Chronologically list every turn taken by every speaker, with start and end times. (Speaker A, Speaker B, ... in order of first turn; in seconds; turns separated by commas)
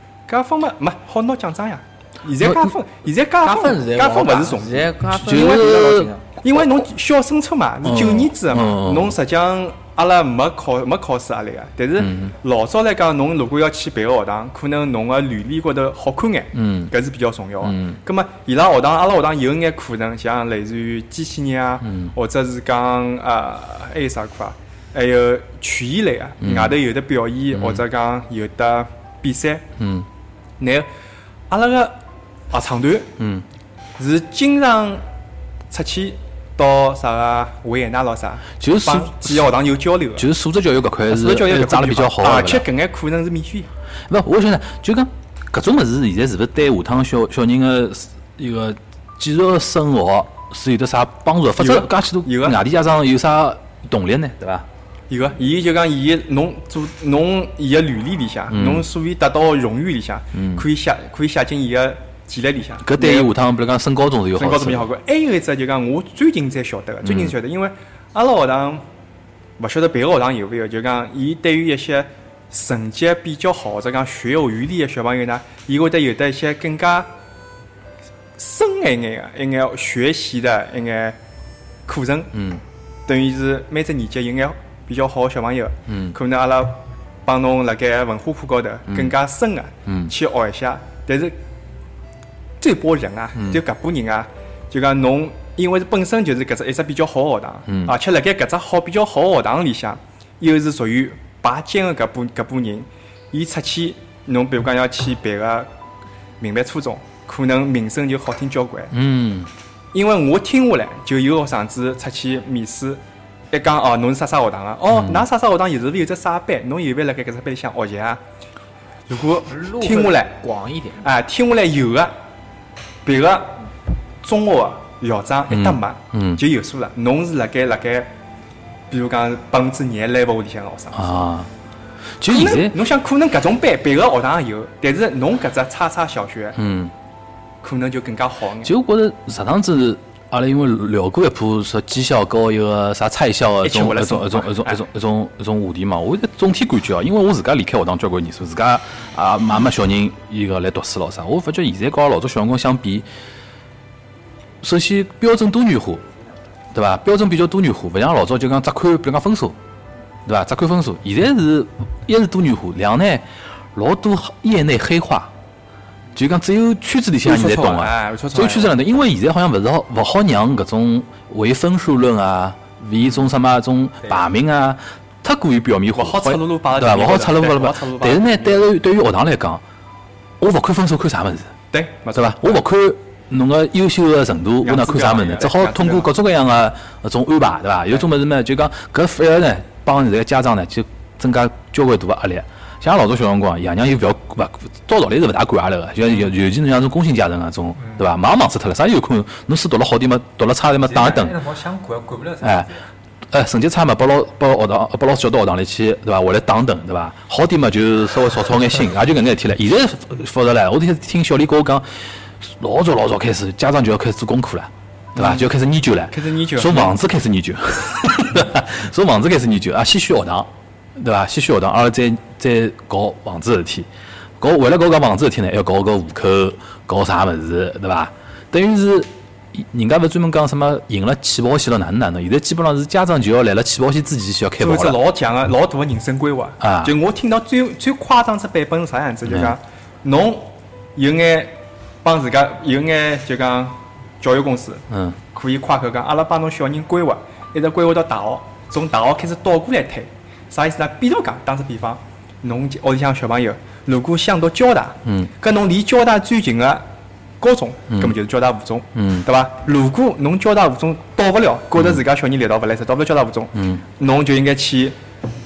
Speaker A: 0.3-5.7, Speaker B: 2.4-2.7, Speaker C: 3.4-6.2, Speaker B: 5.1-6.1, Speaker A: 6.4-29.6, Speaker B: 7.8-9.2, Speaker B: 12.0-12.3, Speaker B: 16.5-16.9, Speaker B: 17.6-18.0, Speaker B: 21.8-22.1, Speaker B: 26.4-26.8, Speaker B: 27.5-27.8, Speaker B: 29.8-30.1, Speaker A: 30.6-30.9, Speaker A: 31.5-32.0, Speaker A: 32.5-33.1, Speaker B: 33.2-33.5, Speaker A: 34.0-35.0, Speaker A: 35.7-40.3, Speaker B: 38.6-39.5, Speaker B: 40.1-42.6, Speaker A: 41.1-43.7, Speaker B: 44.1-54.7, Speaker A: 51.5-52.6, Speaker A: 55.1-63.3, Speaker B: 58.5-58.9, Speaker B: 60.3-60.7, Speaker B: 62.8-64.9, Speaker A: 64.3-68.8, Speaker B: 67.0-67.4, Speaker A: 69.6-77.1, Speaker A: 78.4-81.2, Speaker A: 81.8-82.3, Speaker B: 82.3-82.6, Speaker A: 83.0-91.4, Speaker B: 85.9-86.1, Speaker B: 88.9-89.1, Speaker B: 89.8-90.1, Speaker A: 92.6-105.7, Speaker B: 93.3-93.6, Speaker B: 97.7-98.0, Speaker A: 106.4-108.9, Speaker B: 108.9-109.5, Speaker A: 109.9-118.2, Speaker B: 114.9-115.2, Speaker A: 119.1-120.4, Speaker C: 119.5-121.0, Speaker A: 121.0-122.1, Speaker A: 123.0-123.6, Speaker A: 124.2-128.1, Speaker B: 125.5-126.4, Speaker A: 128.9-131.2, Speaker B: 130.9-131.5, Speaker B: 132.2-132.8, Speaker A: 132.3-136.6, Speaker B: 136.6-136.9, Speaker A: 137.6-138.7, Speaker B: 138.6-153.1, Speaker A: 143.6-144.8, Speaker B: 154.6-156.0, Speaker B: 156.7-159.6, Speaker B: 160.2-165.3, Speaker B: 166.1-179.6, Speaker A: 167.2-168.7, Speaker A: 175.9-178.7, Speaker B: 180.4-181.5, Speaker A: 181.7-182.6, Speaker B: 182.1-201.4, Speaker A: 184.6-186.1, Speaker D: 200.8-202.8, Speaker B: 202.4-202.7, Speaker B: 203.3-211.8, Speaker B: 212.4-223.9, Speaker A: 215.1-215.5, Speaker A: 216.1-216.9, Speaker B: 224.4-235.0, Speaker A: 234.6-256.8, Speaker B: 236.6-236.9, Speaker B: 239.2-239.6, Speaker B: 244.9-245.2, Speaker B: 255.0-255.3, Speaker A: 257.4-264.9, Speaker B: 257.9-258.1, Speaker B: 258.9-259.3, Speaker B: 261.8-262.0, Speaker B: 263.5-263.8